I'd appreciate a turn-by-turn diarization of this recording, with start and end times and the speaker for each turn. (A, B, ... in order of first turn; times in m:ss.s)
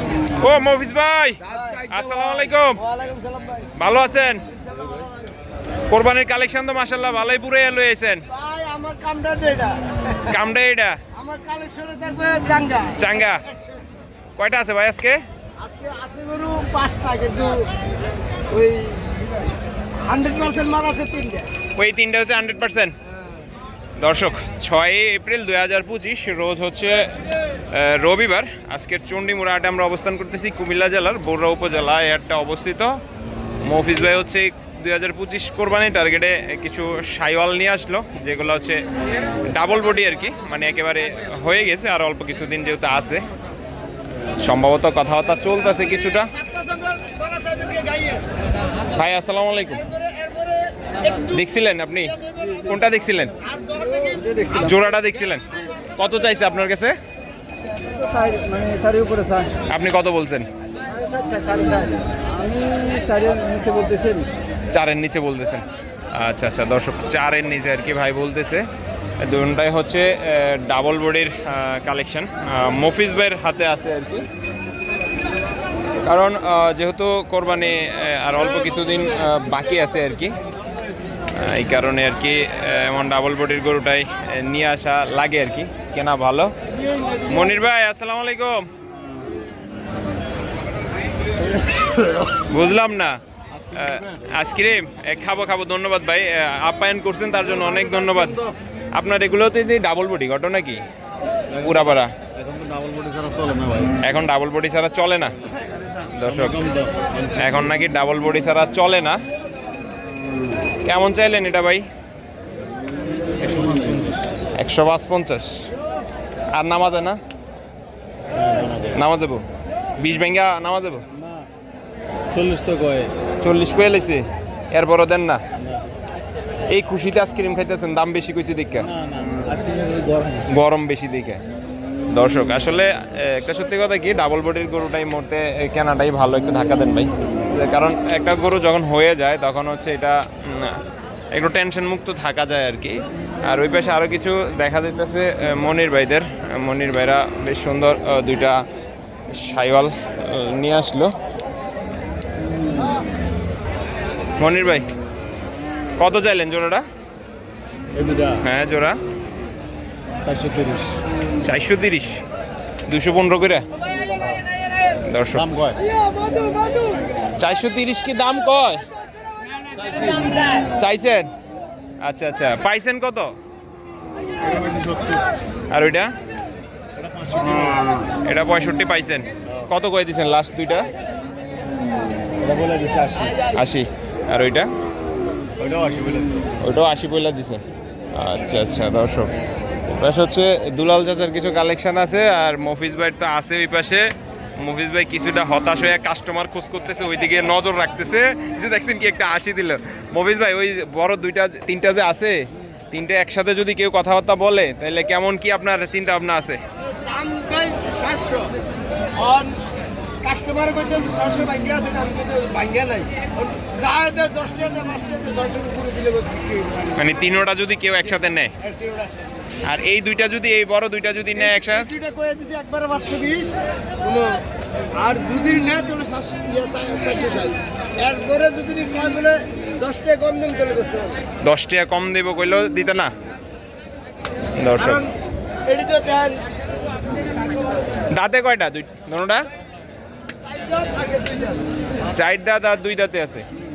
0:00.4-0:02.8 A
0:01.4-0:03.7 B
0:03.8-0:04.4 A
0:04.6-0:05.3 B
0:05.9-0:08.2 A
0:08.3-0:10.4 B
0:10.2-0:11.0 A
0:11.1-0:13.8 B
0:13.0-0:13.4 A
0:14.4-0:15.2 A
0:15.6-0:17.7 B
0:18.5-0:19.2 B
0:20.0-0:21.5 B
0:21.8-0:23.0 A
0:24.0-0:27.1 A
0:27.7-0:33.0 A
0:33.6-0:38.8 A
0:39.4-0:43.2 A
0:44.4-0:46.3 A
0:46.4-0:48.3 B
0:48.9-0:49.8 A
0:50.0-0:50.4 B
0:51.2-0:53.3 A
0:52.4-0:52.7 B
0:53.4-0:54.7 B
0:54.5-0:57.0 A
0:57.9-0:59.5 B
0:59.6-1:00.5 A
1:00.8-1:04.3 B
1:04.7-1:08.7 A
1:09.2-1:14.2 A
1:16.0-1:20.4 A
1:21.4-1:26.5 A
1:27.2-1:28.7 A
1:32.4-1:33.2 A
1:33.5-1:34.2 C
1:33.7-1:38.4 A
1:38.9-1:40.8 A
1:41.5-1:44.0 C
1:41.6-1:42.1 A
1:44.0-1:45.4 A
1:46.1-1:46.6 A
1:46.3-1:47.4 C
1:47.4-1:49.2 A
1:50.8-1:51.9 A
1:53.4-1:54.3 C
1:54.6-1:55.7 A
1:56.5-1:57.2 A
1:58.3-1:59.0 C
1:58.9-1:59.4 A
2:00.0-2:01.1 A
2:01.2-2:01.5 C
2:02.3-2:03.2 C
2:03.3-2:05.4 A
2:06.7-2:08.9 A
2:08.8-2:10.5 C
2:10.5-2:11.4 A
2:12.1-2:28.6 A
2:29.3-2:31.1 A
2:34.4-2:34.9 A
2:36.0-2:36.8 A
2:37.9-2:38.4 C
2:38.4-2:39.0 A
2:40.2-2:41.0 C
2:41.4-2:42.2 A
2:42.9-2:43.7 A
2:44.0-2:44.4 B
2:45.1-2:45.5 A
2:45.4-2:45.8 C
2:45.8-2:47.0 B
2:47.4-2:48.9 A
2:49.4-2:50.7 B
2:49.8-2:50.4 C
2:50.7-2:51.3 A
2:52.0-2:53.3 A
2:54.4-2:55.2 C
2:55.7-2:56.1 A
2:57.0-2:57.9 C
2:58.2-3:00.9 A
3:02.4-3:03.4 C
3:03.5-3:04.7 A
3:05.6-3:06.5 C
3:06.6-3:07.6 A
3:08.1-3:09.3 A
3:09.9-3:26.6 A
3:26.9-3:28.6 B
3:29.2-3:29.6 B
3:30.2-3:36.9 B
3:37.0-3:38.5 A
3:38.6-3:39.3 B
3:39.7-3:41.9 A
3:41.4-3:44.4 B
3:45.0-3:51.2 B
3:51.4-3:53.1 A
3:54.6-3:55.1 A
3:54.8-3:55.1 B
3:55.7-3:56.4 B
3:58.1-3:59.5 A
4:00.4-4:01.6 B
4:02.1-4:03.4 A